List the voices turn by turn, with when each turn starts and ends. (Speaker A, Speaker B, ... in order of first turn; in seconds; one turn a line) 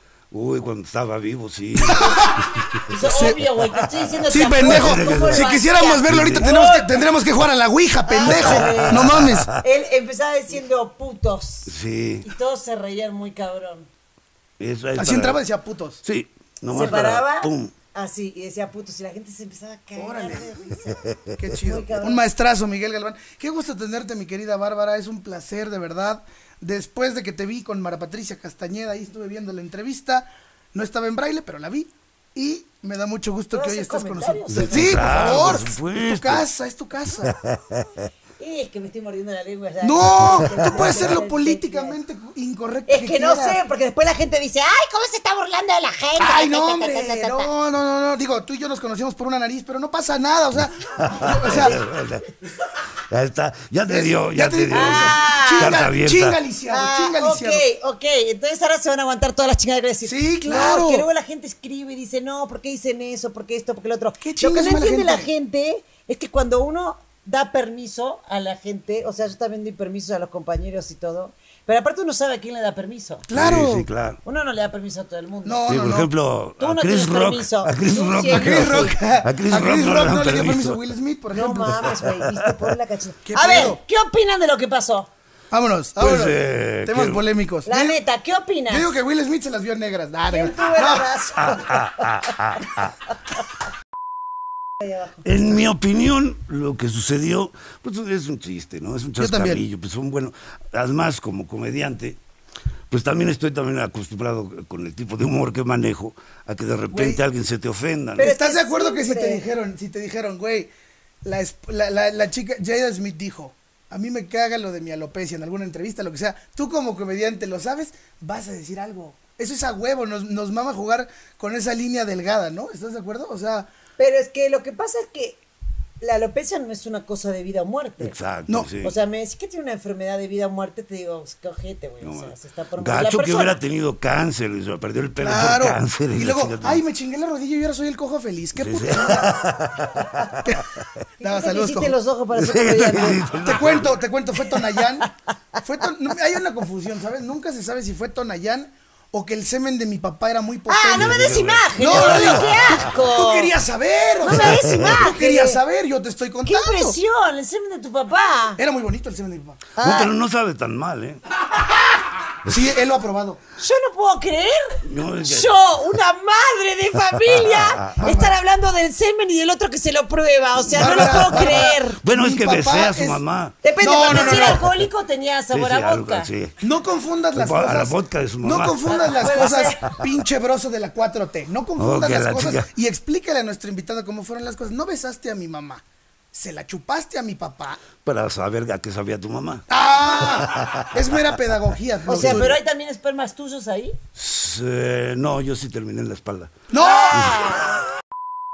Speaker A: 0.3-3.3
Speaker B: 1.8-2.5
Speaker C: 2.9-7.0
Speaker B: 3.0-3.4
Speaker A: 4.3-6.5
Speaker B: 4.3-9.5
Speaker C: 8.1-13.9
Speaker A: 8.2-9.6
Speaker A: 11.7-12.3
Speaker A: 14.6-15.4
Speaker B: 14.9-16.0
Speaker A: 16.0-17.7
Speaker C: 16.7-21.1
Speaker B: 16.7-17.1
Speaker B: 20.0-20.5
Speaker A: 20.9-21.3
Speaker B: 21.4-37.4
Speaker C: 21.6-22.2
Speaker C: 33.5-35.6
Speaker A: 34.5-36.5
Speaker A: 37.2-38.0
Speaker C: 38.4-42.0
Speaker B: 39.8-43.6
Speaker C: 42.9-47.5
Speaker B: 46.2-51.8
Speaker A: 51.0-52.3
Speaker C: 51.5-51.8
Speaker A: 53.0-56.4
Speaker B: 53.9-57.6
Speaker C: 54.7-55.8
Speaker C: 56.7-73.3
Speaker B: 60.0-61.1
Speaker B: 64.2-65.3
Speaker B: 73.3-73.9
Speaker A: 73.3-74.2
Speaker C: 74.2-75.6
Speaker B: 75.5-76.1
Speaker A: 75.7-80.8
Speaker C: 76.6-79.0
Speaker B: 78.2-82.0
Speaker C: 81.3-85.1
Speaker A: 81.7-82.7
Speaker B: 83.3-83.8
Speaker B: 85.5-88.0
Speaker A: 86.0-87.2
Speaker C: 87.7-88.9
Speaker B: 88.7-91.1
Speaker C: 90.3-92.4
Speaker A: 91.4-92.9
Speaker C: 94.8-95.2
Speaker A: 95.2-102.2
Speaker B: 99.2-99.6
Speaker A: 102.9-108.3
Speaker B: 106.9-107.2
Speaker C: 108.2-109.4
Speaker B: 108.2-110.7
Speaker B: 111.2-123.7
Speaker C: 124.0-125.4
Speaker C: 126.0-128.2
Speaker A: 128.0-128.9
Speaker C: 128.8-133.6
Speaker A: 132.0-136.8
Speaker B: 135.2-139.5
Speaker A: 138.6-140.8
Speaker C: 141.2-143.4
Speaker B: 141.2-141.9
Speaker A: 142.3-143.9
Speaker B: 143.3-157.0
Speaker C: 150.7-153.6
Speaker A: 150.9-152.8
Speaker C: 154.2-155.6
Speaker C: 156.4-158.6
Speaker B: 158.6-159.6
Speaker C: 159.8-160.1
Speaker A: 159.8-161.2
Speaker B: 162.4-163.4
Speaker C: 163.6-172.0
Speaker A: 164.8-165.5
Speaker A: 167.3-168.1
Speaker B: 168.0-168.4
Speaker A: 170.7-174.8
Speaker B: 170.7-173.2
Speaker C: 173.6-176.3
Speaker B: 173.8-174.6
Speaker A: 175.5-176.6
Speaker B: 176.6-187.8
Speaker A: 177.3-179.8
Speaker C: 178.9-179.9
Speaker A: 181.8-182.7
Speaker A: 188.0-189.7
Speaker B: 189.7-192.6
Speaker C: 192.1-194.0
Speaker A: 192.1-192.5
Speaker A: 194.2-196.6
Speaker B: 196.7-197.3
Speaker C: 196.8-197.8
Speaker A: 197.1-197.5